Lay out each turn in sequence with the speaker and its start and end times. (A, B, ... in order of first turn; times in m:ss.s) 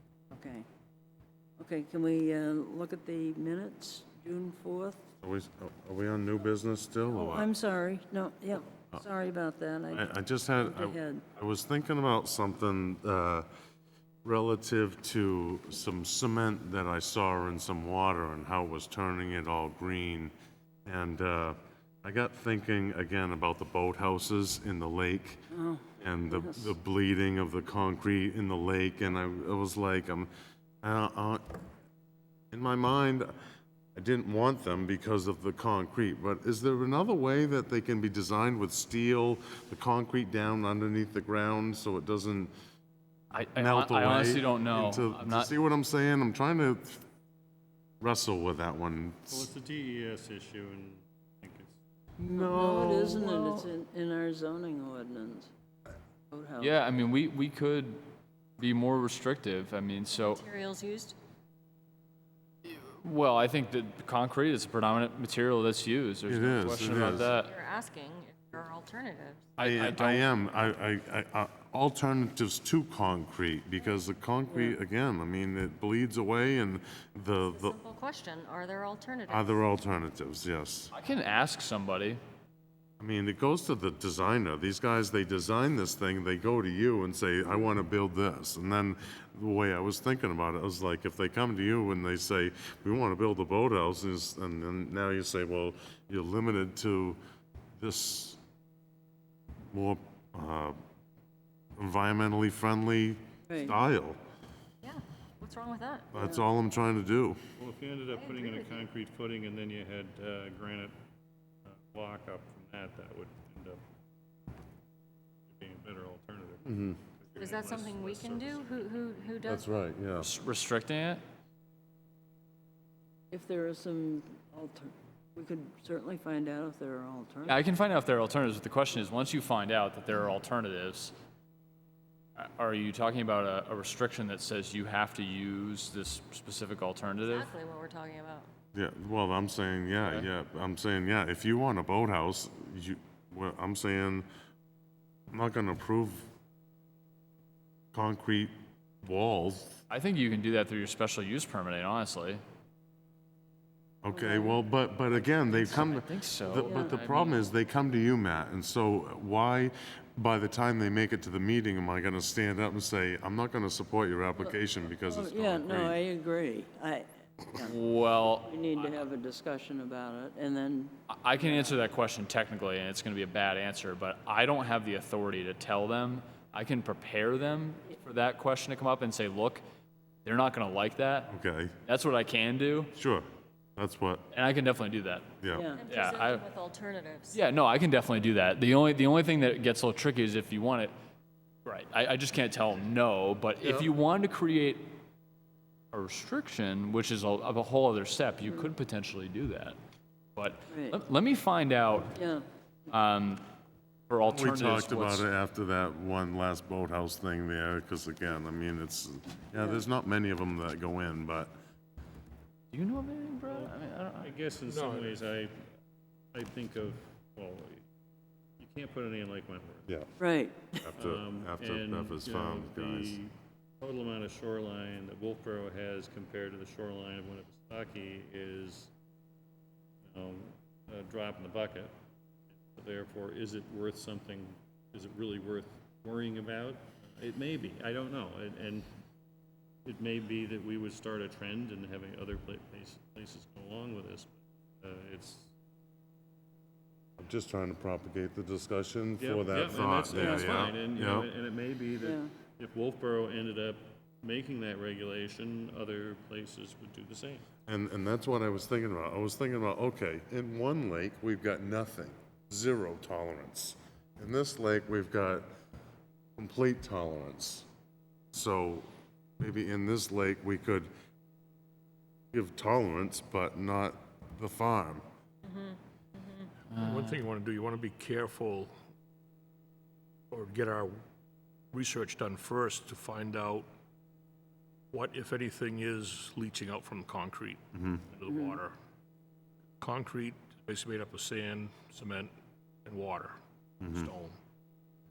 0:00.3-0:00.6 A
0:01.6-0:05.0 A
0:05.2-0:07.5 B
0:07.1-0:10.0 A
0:09.9-0:13.5 B
0:10.6-0:11.2 A
0:14.2-0:20.3 B
0:20.9-0:25.5 B
0:25.5-0:26.7 A
0:26.0-0:30.3 B
0:30.8-0:31.6 B
0:32.5-0:33.3 B
0:34.0-0:42.5 B
0:43.3-0:45.5 C
0:43.6-0:47.0 B
0:48.0-0:49.5 B
0:49.3-0:51.8 D
0:52.3-0:55.5 A
0:52.3-0:53.5 B
0:56.3-0:56.8 A
0:56.6-0:58.0 C
0:58.6-1:00.4 C
1:00.1-1:01.2 E
1:02.6-1:07.5 C
1:06.3-1:07.3 B
1:07.2-1:09.6 E
1:09.6-1:10.3 C
1:09.6-1:17.8 B
1:17.4-1:19.7 E
1:19.3-1:20.9 B
1:20.9-1:22.2 C
1:23.0-1:37.2 B
1:37.8-1:38.4 B
1:39.7-1:40.8 B
1:41.8-1:44.2 B
1:43.5-1:43.8 A
1:44.8-1:46.1 E
1:46.1-1:47.4 B
1:46.2-1:46.4 A
1:47.6-1:50.9 D
1:48.1-1:48.8 E
1:51.6-1:53.8 D
1:55.5-1:59.1 D
1:56.6-1:57.0 B
1:57.4-1:59.6 E
1:59.4-2:00.3 B
2:00.2-2:01.2 C
2:03.3-2:07.6 A
2:07.5-2:11.1 C
2:12.4-2:17.5 C
2:17.2-2:18.5 E
2:18.8-2:24.3 B
2:25.3-2:26.3 B
2:27.9-2:29.8 B
2:29.9-2:32.4 C
2:34.0-2:46.0 B
2:34.1-2:34.6 A
2:35.2-2:37.5 C
2:45.1-2:47.7 A
2:47.6-2:49.0 C
2:48.4-2:51.0 A
2:51.1-2:59.6 C
3:00.2-3:01.3 C
3:01.3-3:01.8 B
3:01.9-3:02.9 C
3:03.0-3:04.3 B
3:04.3-3:05.3 C
3:05.4-3:05.7 B
3:05.5-3:05.8 A
3:05.8-3:07.4 E
3:05.9-3:06.4 C
3:07.3-3:10.9 C
3:11.6-3:14.9 C
3:15.9-3:19.8 C
3:20.4-3:22.2 C
3:20.7-3:21.0 A
3:22.2-3:22.4 A
3:22.9-3:23.4 C
3:24.1-3:25.3 C
3:24.3-3:31.5 B
3:29.6-3:29.8 A
3:32.7-3:34.3 C
3:33.5-3:35.6 D
3:34.7-3:35.2 F
3:36.3-3:37.8 D
3:38.6-3:39.9 D
3:40.2-3:40.7 A
3:40.7-3:43.2 B
3:41.0-3:48.9 D
3:50.0-3:51.9 D
3:52.7-3:58.9 D
3:59.8-4:05.5 D
4:07.2-4:11.3 B
4:09.2-4:17.4 D
4:10.1-4:10.5 A
4:12.0-4:12.3 A
4:17.7-4:25.5 B
4:26.4-4:27.7 B
4:28.3-4:28.9 B
4:29.4-4:30.9 B
4:32.3-4:35.0 B
4:35.4-4:36.5 E
4:36.7-4:37.2 C
4:36.8-4:38.8 F
4:40.3-4:41.0 F
4:41.7-4:43.7 F
4:44.9-4:48.8 F
4:47.7-4:48.0 B
4:48.3-4:48.6 A
4:49.8-4:54.4 F
4:53.8-4:54.1 B